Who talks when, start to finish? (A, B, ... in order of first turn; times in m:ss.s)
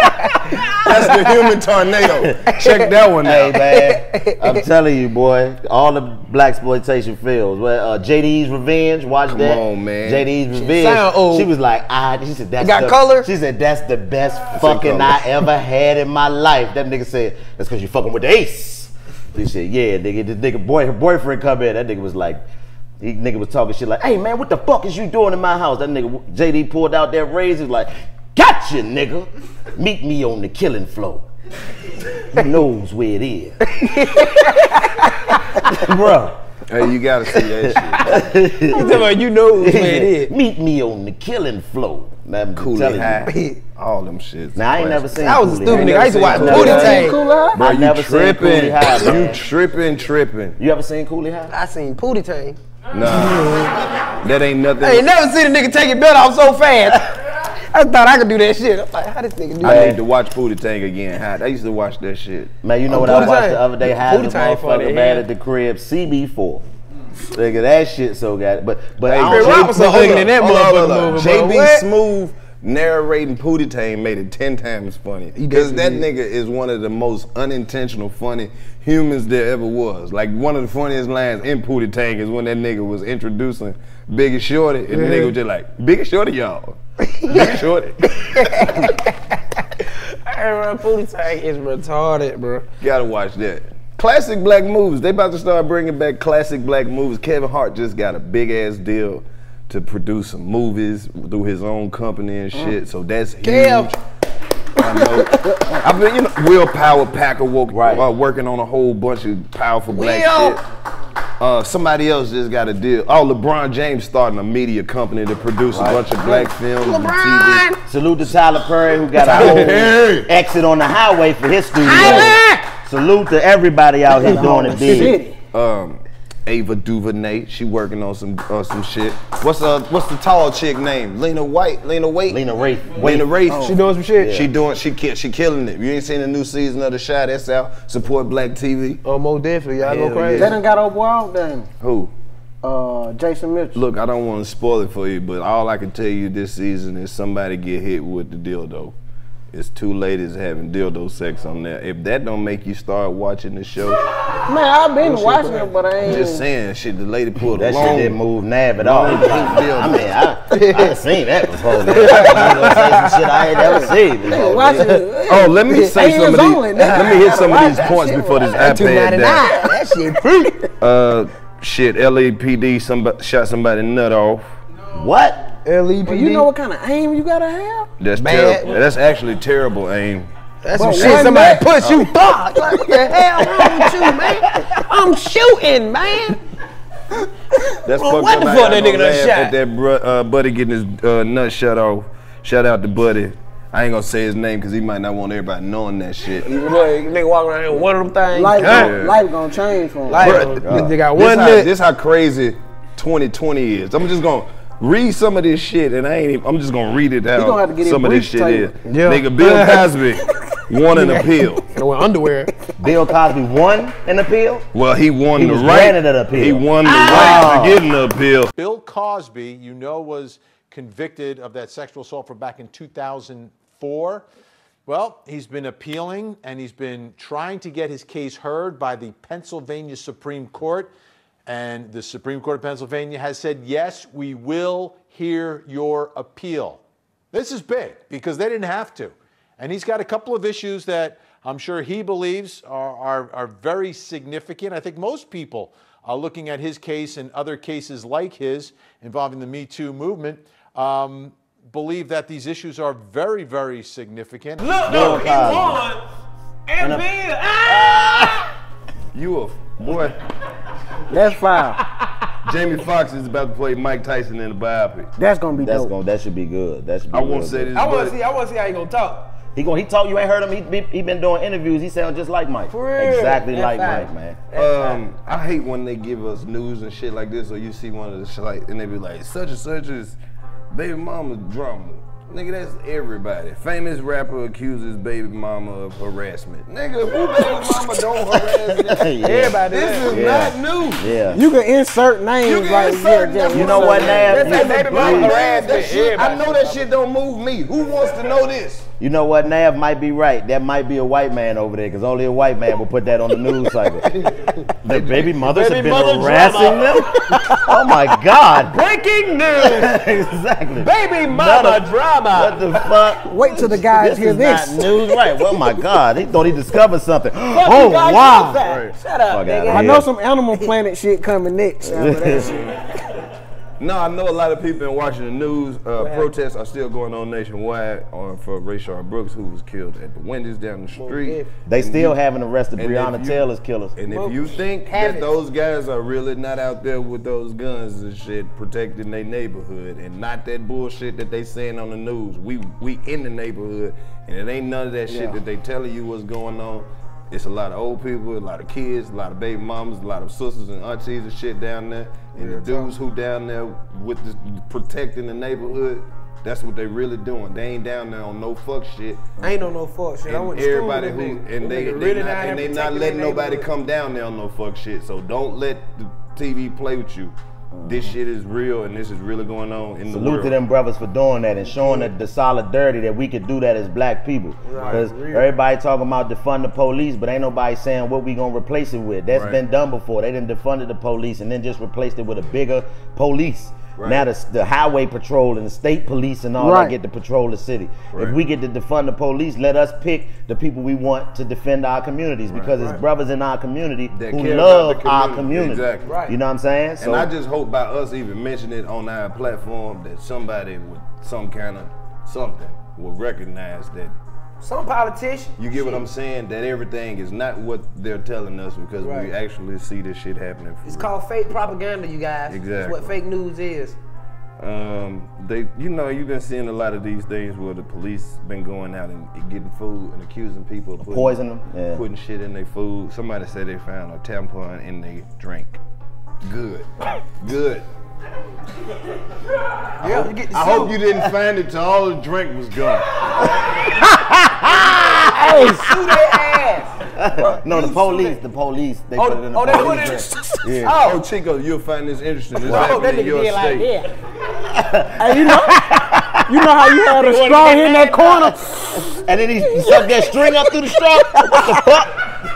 0:00.8-0:03.6 A
0:03.2-0:22.4 B
0:03.7-0:04.6 C
0:09.3-0:10.3 A
0:10.5-0:11.5 C
0:12.6-0:13.3 C
0:14.5-0:15.3 A
0:23.0-0:31.2 B
0:32.3-0:33.6 B
0:33.8-0:35.4 C
0:35.7-0:36.4 B
0:36.7-0:38.2 A
0:37.6-0:43.3 B
0:38.7-0:40.3 C
0:42.6-0:50.6 A
0:43.3-0:43.6 C
0:44.6-0:49.4 B
0:45.2-0:47.2 C
0:46.4-0:47.6 D
0:50.6-0:51.5 B
0:51.5-0:52.6 C
0:52.9-0:55.1 A
0:54.8-0:57.2 C
0:57.7-0:59.9 C
0:59.6-1:02.5 A
0:59.6-1:00.0 B
1:02.6-1:06.6 B
1:02.9-1:05.2 C
1:07.3-1:10.3 B
1:09.0-1:28.8 A
1:09.2-1:11.9 C
1:15.4-1:16.0 C
1:24.9-1:25.3 C
1:28.1-1:29.2 C
1:29.8-1:32.7 C
1:32.8-1:44.0 A
1:43.4-1:43.9 C
1:44.8-1:50.6 A
1:45.5-1:45.8 D
1:47.7-1:48.0 B
1:49.9-1:50.6 C
1:51.4-1:57.7 A
1:55.7-1:56.0 B
1:56.2-1:57.8 C
1:57.9-2:05.2 B
1:59.2-2:00.3 A
2:01.8-2:02.7 C
2:02.0-2:02.4 D
2:04.2-2:05.4 D
2:05.5-2:12.4 A
2:12.3-2:13.3 B
2:12.9-2:19.0 A
2:13.5-2:13.8 D
2:13.6-2:14.3 C
2:14.2-2:14.5 B
2:19.0-2:20.6 C
2:19.8-2:20.6 A
2:20.4-2:21.7 D
2:21.8-2:22.1 A
2:22.6-2:23.8 D
2:23.8-2:29.0 A
2:29.5-2:34.1 A
2:34.5-2:36.4 D
2:35.0-2:38.2 A
2:37.6-2:44.8 B
2:38.8-2:40.1 A
2:40.5-2:40.9 C
2:41.9-2:43.8 C
2:42.1-2:42.4 A
2:44.2-2:48.7 D
2:44.3-2:49.5 A
2:48.5-2:50.7 C
2:50.8-2:54.5 A
2:55.0-2:55.5 B
2:55.6-2:56.5 C
2:56.0-2:57.9 D
2:58.0-3:00.3 A
2:58.2-2:58.8 C
3:00.6-3:06.4 C
3:00.8-3:01.7 D
3:00.9-3:02.3 A
3:02.9-3:03.2 D
3:07.8-3:16.5 A
3:07.9-3:09.6 C
3:16.4-3:19.0 C
3:18.3-3:20.5 D
3:18.6-3:19.2 A
3:20.1-3:21.7 C
3:20.1-3:31.7 A
3:27.3-3:29.2 D
3:28.9-3:29.9 C
3:30.9-3:32.5 C
3:32.8-3:34.7 B
3:34.7-3:38.5 A
3:35.4-3:37.8 B
3:36.9-3:37.4 C
3:38.6-3:44.3 E
3:44.9-3:50.9 E
3:51.5-4:14.8 E
4:14.6-4:16.0 C
4:14.9-4:15.8 B
4:16.7-4:18.5 C
4:16.8-4:17.1 B
4:17.6-4:18.5 B
4:19.1-4:20.2 A
4:21.1-4:21.8 D
4:22.4-4:25.1 A
4:25.2-4:25.9 D
4:25.5-4:27.7 B
4:27.1-4:28.2 A
4:27.8-4:29.3 C
4:29.6-4:34.4 B
4:32.7-4:35.0 C
4:34.5-4:40.2 A
4:40.7-4:49.0 A
4:48.3-4:51.4 B
4:49.0-4:50.1 C
4:49.7-4:51.2 A
4:51.3-4:54.4 D
4:52.4-4:58.9 A
4:53.5-4:55.4 B
4:54.3-4:56.9 C
4:59.0-5:04.1 B
5:04.8-5:08.8 B
5:04.9-5:07.6 C
5:08.6-5:10.0 C
5:09.6-5:20.1 B
5:10.8-5:13.0 C
5:13.3-5:14.9 D
5:17.5-5:19.9 C
5:18.6-5:18.9 A
5:19.7-5:22.7 D
5:21.8-5:22.5 B
5:23.8-5:32.2 A
5:26.0-5:26.3 C
5:31.0-5:31.5 C
5:31.7-5:34.0 B
5:32.8-5:33.4 A
5:34.0-5:59.2 A
5:34.1-5:35.3 C
5:45.1-5:45.4 D
5:52.4-5:52.9 C
5:59.4-6:03.7 C
6:00.3-6:10.6 A
6:07.8-6:08.1 D
6:10.1-6:37.3 B
6:14.7-6:15.5 C
6:14.7-6:15.1 A
6:19.3-6:19.6 A
6:24.0-6:24.3 A
6:26.6-6:27.0 D
6:28.1-6:28.4 A
6:32.5-6:32.8 A
6:34.1-6:36.1 A
6:36.0-6:36.4 C
6:37.0-6:44.2 A
6:44.6-6:46.0 C
6:45.6-6:51.1 A
6:49.0-6:49.3 C
6:50.8-6:54.0 C
6:52.5-6:53.2 A
6:54.6-7:01.4 A
7:01.0-7:02.0 B
7:01.9-7:05.8 A
7:06.4-7:07.9 A
7:10.0-7:11.0 C
7:10.0-7:13.1 A
7:14.2-7:15.9 B
7:15.2-7:16.9 C
7:15.4-7:15.9 D
7:17.2-7:21.0 B
7:17.4-7:18.4 C
7:19.2-7:21.2 C
7:20.9-7:23.9 A
7:22.6-7:24.1 C
7:22.6-7:22.9 B
7:24.6-7:26.9 B
7:25.2-7:29.2 D
7:27.2-7:28.6 C
7:29.2-7:32.2 B
7:29.8-7:31.8 D